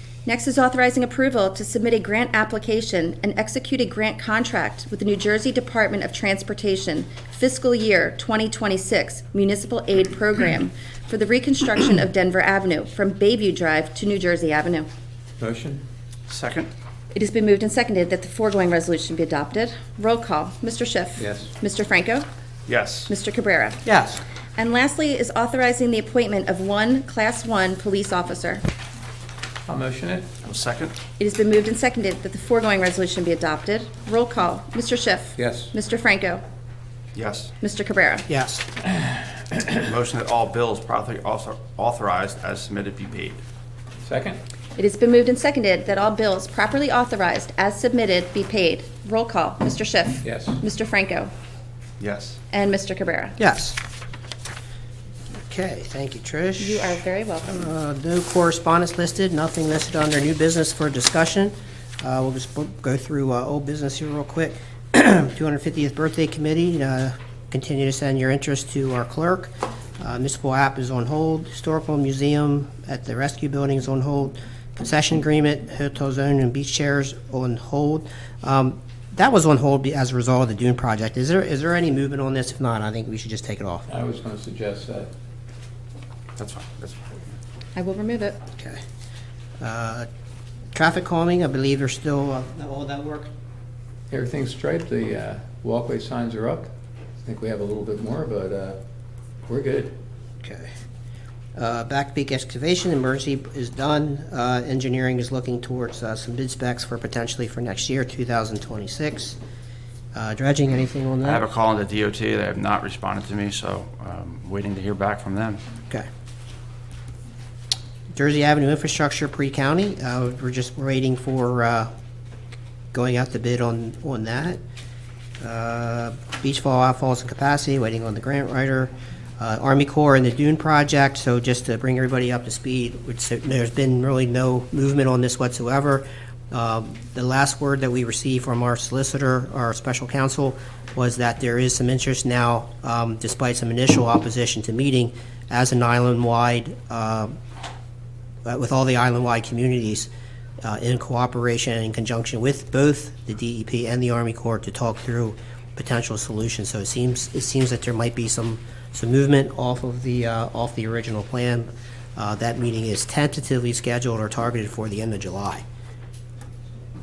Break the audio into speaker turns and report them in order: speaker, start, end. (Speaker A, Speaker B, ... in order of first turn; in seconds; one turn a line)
Speaker A: 0.2-14.9
Speaker B: 15.4-15.8
Speaker C: 16.3-16.7
Speaker A: 17.1-22.2
Speaker B: 21.2-21.5
Speaker C: 22.7-23.1
Speaker A: 23.1-23.8
Speaker D: 23.8-24.2
Speaker A: 24.6-28.6
Speaker B: 29.6-30.3
Speaker C: 30.4-30.9
Speaker A: 31.2-36.4
Speaker B: 35.4-35.7
Speaker C: 37.1-37.5
Speaker A: 37.6-38.3
Speaker D: 38.3-38.6
Speaker B: 38.9-39.7
Speaker C: 39.8-43.4
Speaker B: 44.0-44.4
Speaker A: 44.8-51.3
Speaker B: 50.2-50.6
Speaker C: 52.0-52.4
Speaker A: 52.5-53.4
Speaker D: 53.4-53.8
Speaker D: 55.5-83.9
Speaker A: 56.6-57.7
Speaker B: 83.9-85.1
Speaker C: 86.4-87.2
Speaker A: 87.7-88.4
Speaker D: 88.5-88.8
Speaker D: 89.6-90.1
Speaker D: 90.7-93.3
Speaker B: 94.1-96.7
Speaker B: 97.2-98.8
Speaker B: 99.5-99.9
Speaker D: 100.4-100.7
Speaker D: 101.5-109.4
Speaker D: 110.1-111.4
Speaker C: 111.2-115.6
Speaker D: 118.1-121.9
Speaker D: 122.9-124.6
Speaker D: 125.4-147.3
Speaker D: 148.4-150.1
Speaker D: 150.6-165.6